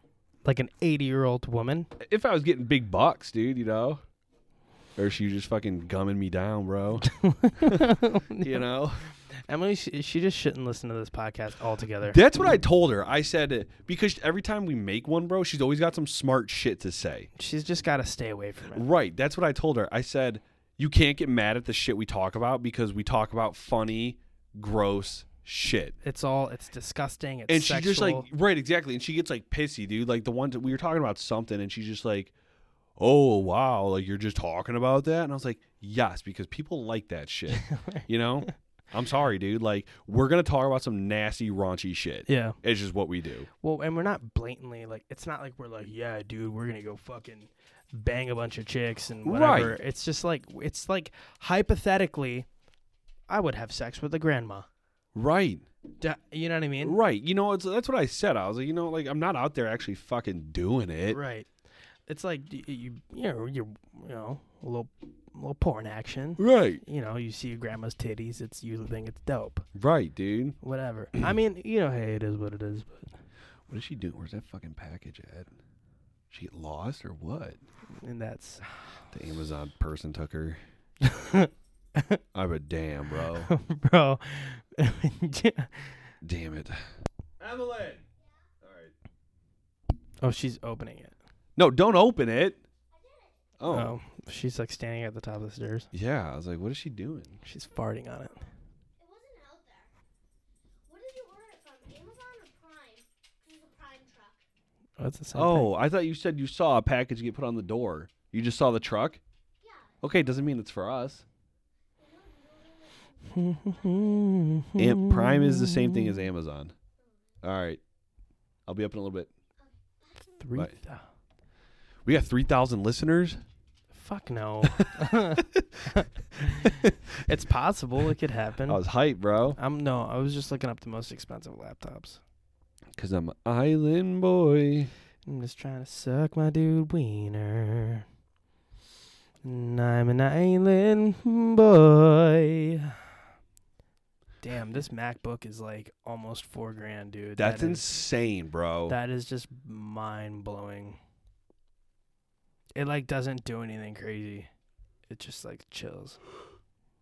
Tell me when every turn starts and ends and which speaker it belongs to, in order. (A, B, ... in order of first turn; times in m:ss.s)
0:00.4-0:01.9 A
0:02.0-0:04.0 B
0:05.0-0:09.1 B
0:07.1-0:08.6 A
0:09.3-0:12.2 A
0:12.0-0:17.3 B
0:17.4-0:18.9 A
0:18.7-0:26.0 B
0:26.0-0:28.3 A
0:27.5-0:32.3 B
0:33.0-0:43.5 B
0:37.5-0:38.0 A
0:42.3-0:42.6 A
0:43.6-0:52.5 A
0:49.2-0:49.8 B
0:53.3-0:54.7 A
0:55.2-0:55.7 B
0:56.0-0:57.0 A
0:56.8-1:01.2 B
1:01.1-1:01.5 A
1:02.1-1:09.6 A
1:06.4-1:06.8 B
1:09.8-1:10.6 B
1:10.6-1:13.1 A
1:13.7-1:15.5 B
1:16.3-1:17.6 B
1:18.0-1:18.7 A
1:19.1-1:20.6 B
1:21.0-1:22.2 A
1:22.3-1:23.5 B
1:23.4-1:26.0 A
1:26.2-1:26.8 B
1:27.4-1:28.0 B
1:28.2-1:28.5 C
1:28.6-1:28.9 B
1:30.2-1:31.2 A
1:31.6-1:32.6 B
1:32.9-1:33.5 C
1:33.6-1:34.0 B
1:33.7-1:35.9 A
1:35.9-1:37.4 B
1:37.4-1:38.4 A
1:39.0-1:39.9 C
1:40.9-1:44.4 C
1:45.0-1:45.7 A
1:45.4-1:49.2 B
1:49.6-1:50.5 C
1:50.0-1:51.2 B
1:52.0-1:54.5 C
1:53.3-1:56.1 A
1:54.8-1:56.7 B
1:57.0-1:57.3 C
1:57.4-1:57.8 B
1:58.7-1:59.3 B
1:59.6-2:00.2 C
2:00.4-2:01.0 A
2:02.1-2:03.4 B
2:03.9-2:08.8 A
2:04.7-2:07.2 B
2:08.7-2:09.6 B
2:09.6-2:12.2 A
2:13.0-2:14.9 B
2:15.3-2:18.0 A
2:19.4-2:23.0 A
2:24.4-2:27.9 A
2:27.4-2:29.0 B
2:28.9-2:31.0 A
2:32.8-2:34.5 A
2:35.1-2:36.2 A